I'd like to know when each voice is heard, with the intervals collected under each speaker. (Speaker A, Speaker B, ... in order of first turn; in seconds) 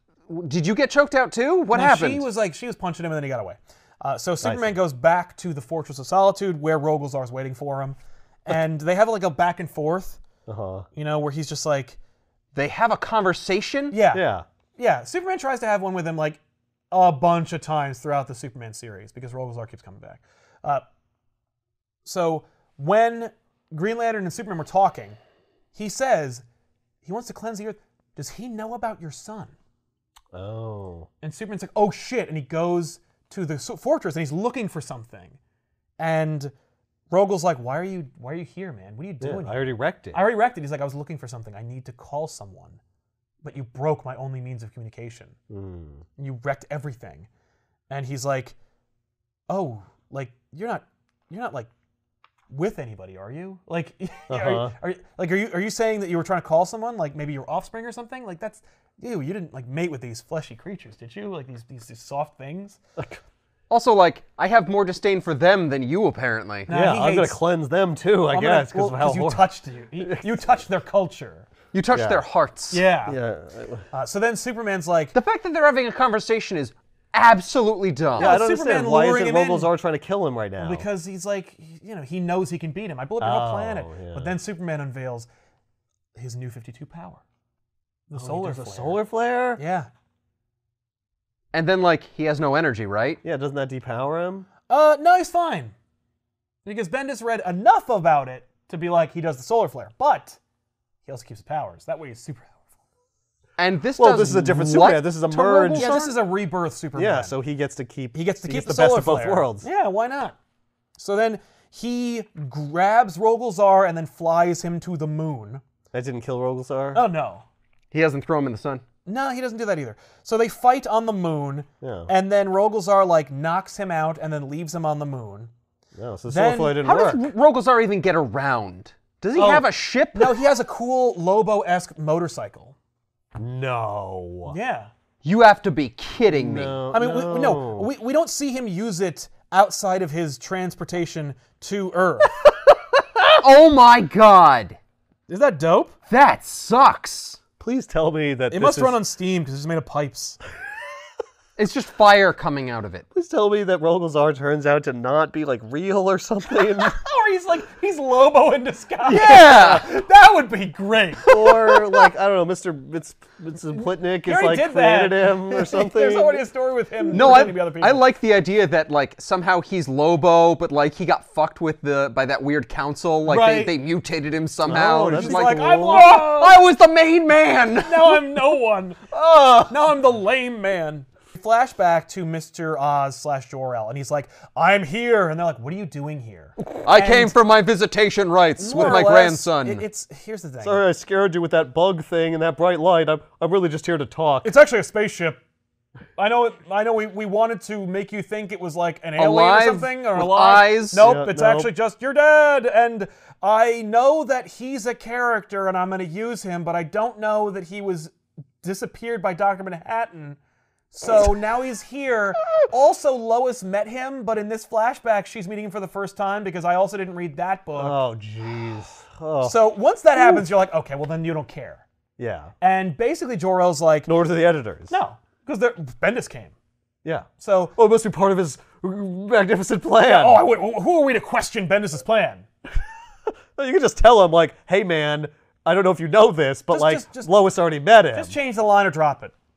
Speaker A: 0.3-2.3, 12.6-13.9, 63.7-66.7, 71.7-72.8, 75.2-78.3, 91.5-93.2, 103.6-106.1, 117.9-118.8, 126.8-130.4, 135.2-136.8, 143.3-144.8, 146.1-147.4, 151.6-153.1, 159.1-159.9, 167.1-178.2, 179.1-179.7, 186.8-189.8, 199.2-201.0
Speaker B: 1.7-10.2, 10.9-12.0, 13.9-14.3, 14.8-16.4, 16.9-20.8, 22.1-25.2, 25.8-26.4, 27.0-29.5, 31.2-35.4, 36.0-36.5, 37.1-42.8, 43.4-45.4, 46.2-47.3, 47.9-48.6, 49.5-51.7, 52.5-62.8, 66.7-67.4, 68.3-71.5, 72.7-73.2, 73.9-75.2, 78.2-79.7, 80.6-85.3, 86.2-87.2, 88.1-89.0, 89.6-89.9, 94.7-95.7, 96.7-100.4, 101.1-102.6, 105.8-107.3, 108.1-110.4, 111.0-115.6, 116.9-117.5, 119.1-125.5, 126.3-126.8, 129.3-132.8, 134.5-134.9, 136.9-142.3, 145.3-145.9, 148.5-150.4, 156.8-162.1, 164.2-168.1, 173.3-173.8, 175.1-176.6, 177.8-179.1, 179.7-187.4, 188.6-190.8, 194.4-195.4, 196.2-210.4, 210.9-218.0, 219.4-221.8, 222.6-224.1, 224.9-226.5, 227.4-227.8, 230.0-232.5, 236.7-237.3, 238.1-239.3
Speaker C: 4.4-4.7, 10.5-10.9, 14.1-14.4, 30.3-31.1, 39.2-40.2, 45.5-46.0, 54.3-54.7, 66.7-69.5, 70.0-70.3, 71.9-72.2, 73.1-73.9, 78.2-80.9, 83.2-84.3, 88.2-89.6, 93.2-94.5, 104.0-106.0, 107.0-109.7, 115.9-117.0, 121.8-122.1, 126.0-127.3, 133.4-134.6, 136.3-137.9, 147.6-149.0, 153.1-157.0, 159.1-159.8, 161.3-166.4, 174.7-176.1, 190.6-194.5, 200.9-201.7, 217.8-219.6, 220.2-220.4, 222.2-222.5, 224.1-224.9, 227.0-230.4, 233.6-238.3